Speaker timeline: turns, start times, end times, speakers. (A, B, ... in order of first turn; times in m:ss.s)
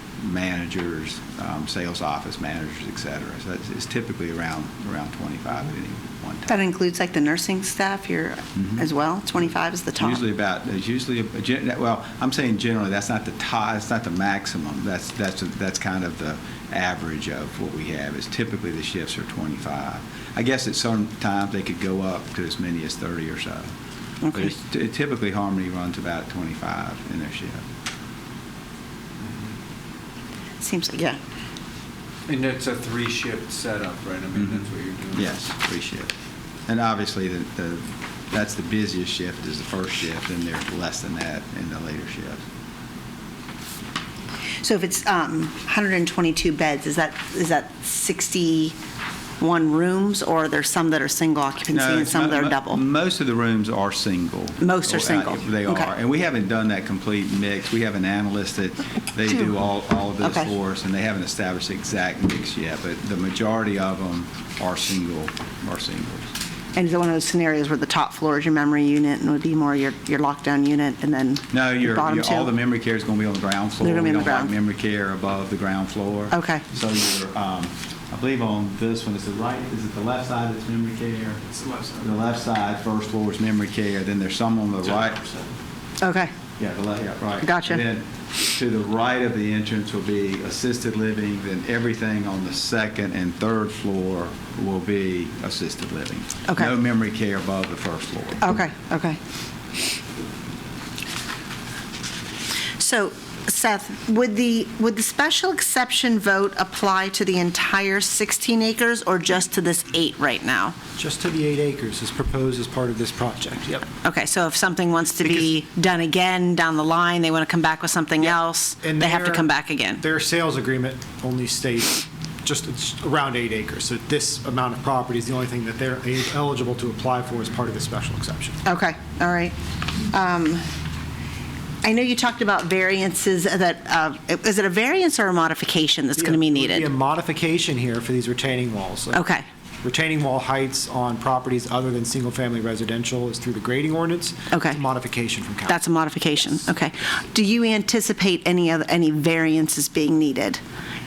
0:00.2-0:06.5 A
0:06.5-0:10.2 B
0:08.6-0:08.8 A
0:10.0-0:23.7 A
0:24.2-0:24.6 B
0:24.3-0:27.6 A
0:29.2-0:29.5 C
0:30.6-0:31.2 B
0:32.3-0:35.3 C
0:34.4-0:36.1 A
0:36.7-0:42.4 A
0:44.6-0:48.8 B
0:49.4-0:52.8 B
0:51.7-1:06.3 A
0:54.6-0:55.9 B
1:00.2-1:00.5 B
1:06.8-1:12.5 B
1:11.5-1:25.2 A
1:13.8-1:14.5 B
1:16.3-1:16.6 B
1:26.0-1:26.3 B
1:26.6-1:38.4 A
1:27.4-1:27.8 B
1:38.4-1:39.2 B
1:42.8-1:50.8 B
1:51.0-1:53.9 D
1:54.0-2:00.0 B
1:58.8-1:59.4 D
2:00.0-2:08.6 D
2:08.6-2:09.6 B
2:10.1-2:10.6 B
2:11.8-2:16.9 B
2:16.2-2:19.2 D
2:19.1-2:19.5 B
2:19.8-2:25.7 D
2:24.5-2:24.8 B
2:25.6-2:30.6 B